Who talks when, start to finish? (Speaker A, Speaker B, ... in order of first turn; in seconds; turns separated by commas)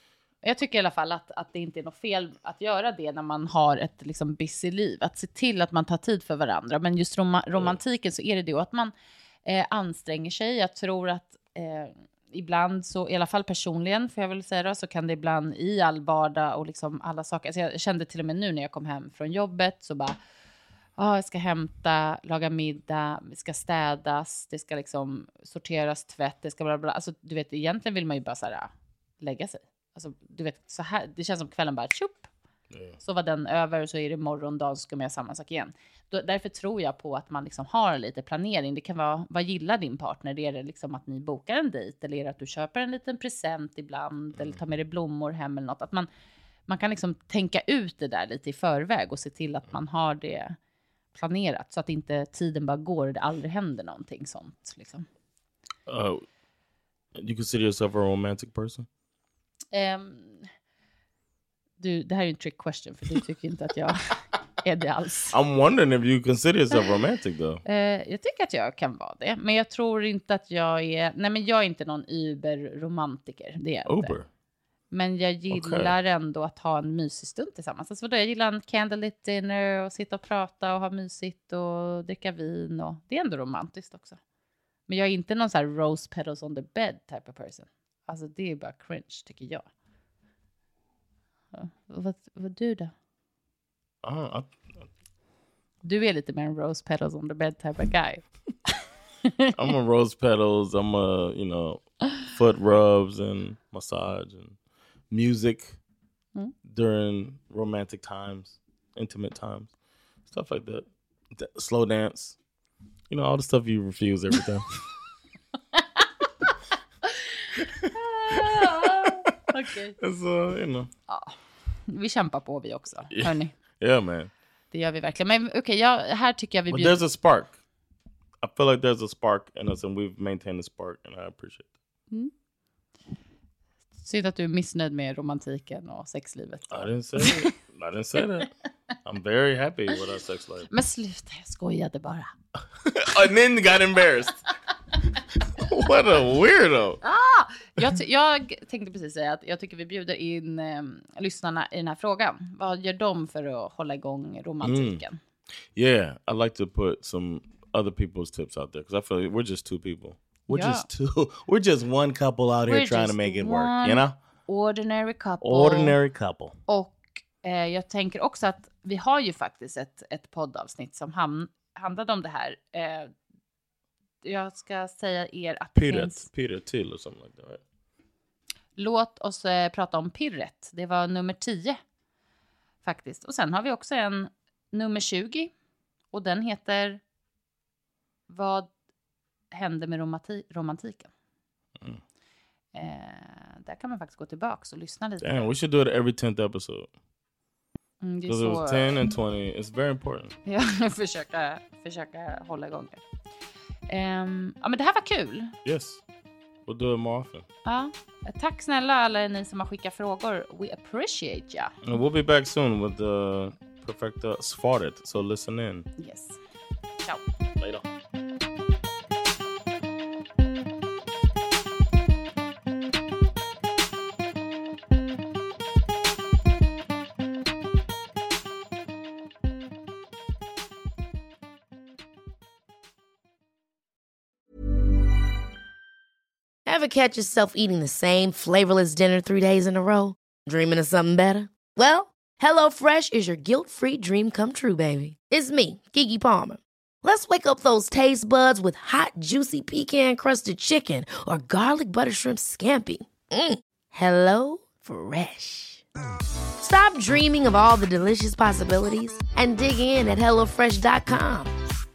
Speaker A: 0.4-8.9, Speaker A: 9.4-20.2, Speaker A: 21.0-32.3, Speaker B: 32.7-33.0, Speaker A: 33.0-46.1, Speaker A: 46.7-50.5, Speaker A: 51.1-55.1, Speaker B: 55.9-56.2, Speaker B: 57.1-58.9, Speaker A: 59.7-60.5, Speaker A: 61.8-65.3, Speaker B: 65.3-67.6, Speaker A: 67.6-74.2, Speaker B: 73.8-74.3, Speaker A: 74.9-84.2, Speaker B: 75.5-75.9, Speaker A: 84.9-89.6, Speaker A: 91.5-92.9, Speaker B: 94.0-94.9, Speaker A: 95.8-98.7, Speaker A: 99.2-99.6, Speaker B: 99.5-104.5, Speaker B: 105.1-105.8, Speaker B: 106.7-109.7, Speaker B: 110.3-112.3, Speaker B: 113.1-114.7, Speaker A: 115.7-116.5, Speaker A: 117.0-120.0, Speaker B: 117.6-119.4, Speaker B: 120.0-120.9, Speaker A: 121.1-121.3, Speaker A: 121.9-123.5, Speaker B: 123.1-124.3, Speaker A: 124.7-127.0, Speaker B: 126.7-127.5, Speaker B: 128.4-131.7, Speaker A: 134.0-137.5, Speaker B: 136.7-138.5, Speaker B: 139.0-140.7, Speaker A: 140.7-142.3, Speaker B: 142.8-144.4, Speaker B: 145.5-147.0, Speaker A: 147.0-155.2, Speaker B: 154.6-155.0, Speaker B: 155.8-164.1, Speaker A: 160.5-160.9, Speaker A: 162.7-165.9, Speaker B: 165.4-166.5, Speaker A: 166.7-173.1, Speaker A: 174.2-176.2, Speaker B: 175.8-177.6, Speaker A: 178.8-181.8, Speaker A: 182.8-185.5, Speaker A: 186.1-187.0, Speaker A: 188.3-188.7, Speaker A: 189.5-191.1, Speaker A: 192.7-195.5, Speaker B: 195.2-196.9, Speaker A: 198.0-199.0, Speaker B: 198.3-200.3, Speaker A: 200.4-203.0, Speaker A: 203.9-205.5, Speaker B: 205.6-206.0, Speaker B: 206.7-207.4, Speaker A: 207.6-211.7, Speaker B: 211.8-215.9, Speaker A: 216.0-216.4, Speaker B: 217.6-217.8, Speaker C: 236.7-255.8, Speaker C: 256.6-261.5